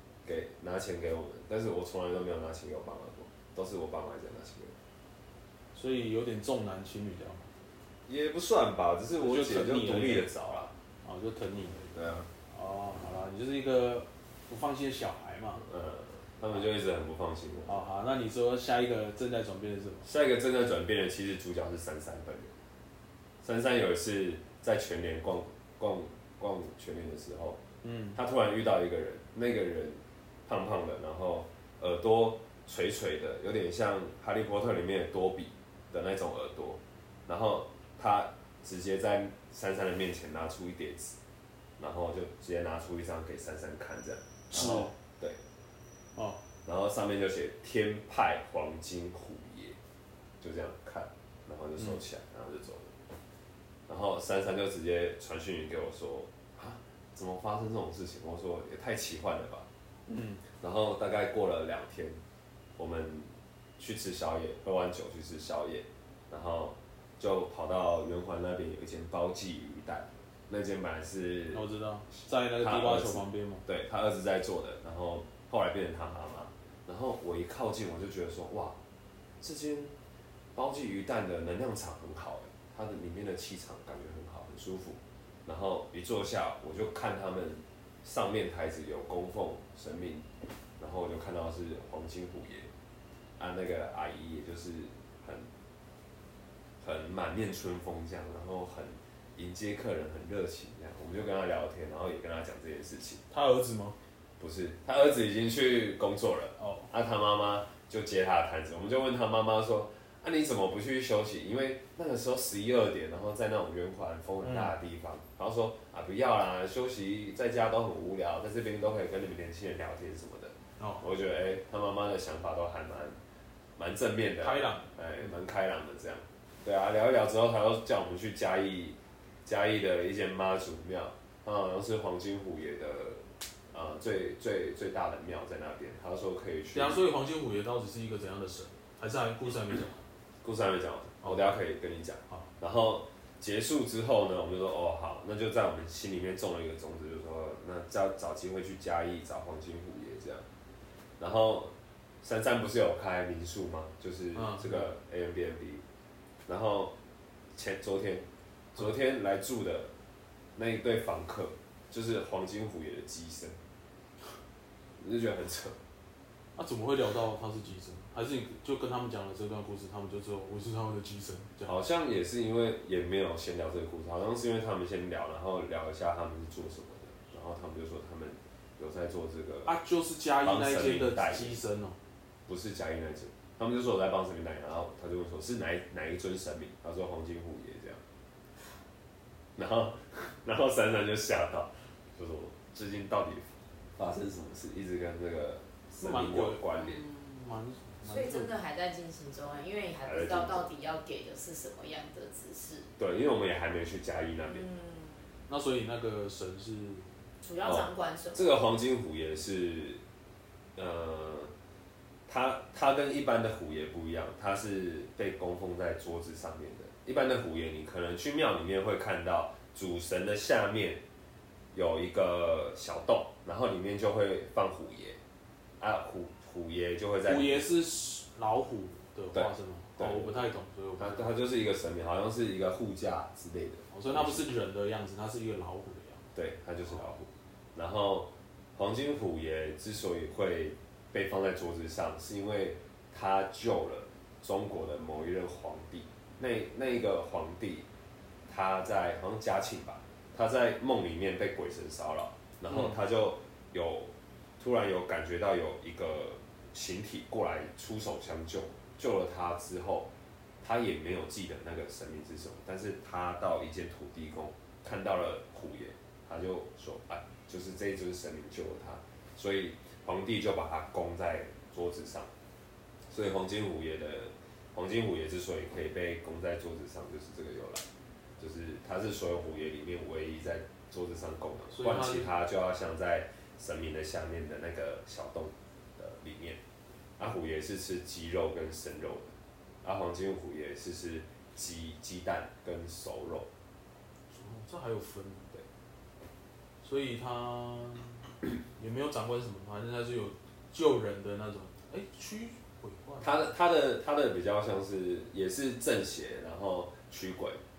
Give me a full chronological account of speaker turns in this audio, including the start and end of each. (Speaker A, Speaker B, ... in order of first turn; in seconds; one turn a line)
Speaker A: 0.2-4.7
Speaker B: 5.7-7.5
Speaker A: 8.1-10.7
Speaker B: 9.2-10.3
Speaker B: 11.0-11.9
Speaker A: 11.9-12.3
Speaker B: 12.5-15.6
Speaker A: 15.6-17.8
Speaker B: 17.7-20.1
Speaker A: 20.0-22.5
Speaker A: 23.4-27.6
Speaker B: 27.8-28.2
Speaker A: 28.1-41.1
Speaker A: 41.8-45.4
Speaker B: 44.5-44.9
Speaker B: 46.1-46.4
Speaker A: 46.6-49.8
Speaker A: 50.4-52.9
Speaker A: 53.9-59.7
Speaker B: 60.1-60.4
Speaker A: 60.5-62.2
Speaker A: 62.8-71.7
Speaker B: 71.5-73.6
Speaker A: 72.6-78.8
Speaker A: 79.4-80.0
Speaker A: 80.5-90.2
Speaker A: 90.8-92.7
Speaker A: 93.4-95.5
Speaker A: 96.8-103.2
Speaker B: 103.3-104.0
Speaker A: 104.4-123.2
Speaker B: 106.6-106.9
Speaker B: 114.4-114.7
Speaker B: 120.8-121.0
Speaker A: 123.8-137.0
Speaker B: 124.4-124.9
Speaker B: 136.7-140.0
Speaker A: 140.4-150.4
Speaker B: 141.2-141.5
Speaker A: 151.2-155.8
Speaker B: 154.3-154.8
Speaker A: 156.5-156.9
Speaker A: 157.5-159.9
Speaker A: 160.6-163.6
Speaker A: 165.0-165.8
Speaker B: 166.6-171.7
Speaker A: 171.7-179.7
Speaker B: 179.7-181.9
Speaker A: 180.4-181.6
Speaker A: 182.5-188.0
Speaker A: 189.6-197.0
Speaker B: 196.0-198.5
Speaker C: 198.0-202.9
Speaker A: 200.0-200.7
Speaker A: 203.0-204.7
Speaker C: 204.4-205.2
Speaker B: 205.5-207.1
Speaker C: 207.4-208.6
Speaker A: 207.6-210.0
Speaker A: 210.8-211.5
Speaker A: 212.3-221.0
Speaker A: 221.7-225.2
Speaker A: 225.8-227.6
Speaker B: 227.2-231.3
Speaker A: 229.3-230.3
Speaker A: 231.0-234.5
Speaker B: 233.9-236.3
Speaker A: 236.3-247.9
Speaker A: 248.5-260.1
Speaker B: 252.7-252.9
Speaker A: 260.6-272.3
Speaker A: 273.1-277.8
Speaker A: 278.4-286.6
Speaker B: 281.7-282.3
Speaker A: 287.2-293.5
Speaker B: 294.3-295.5
Speaker B: 296.8-303.4
Speaker A: 303.2-307.6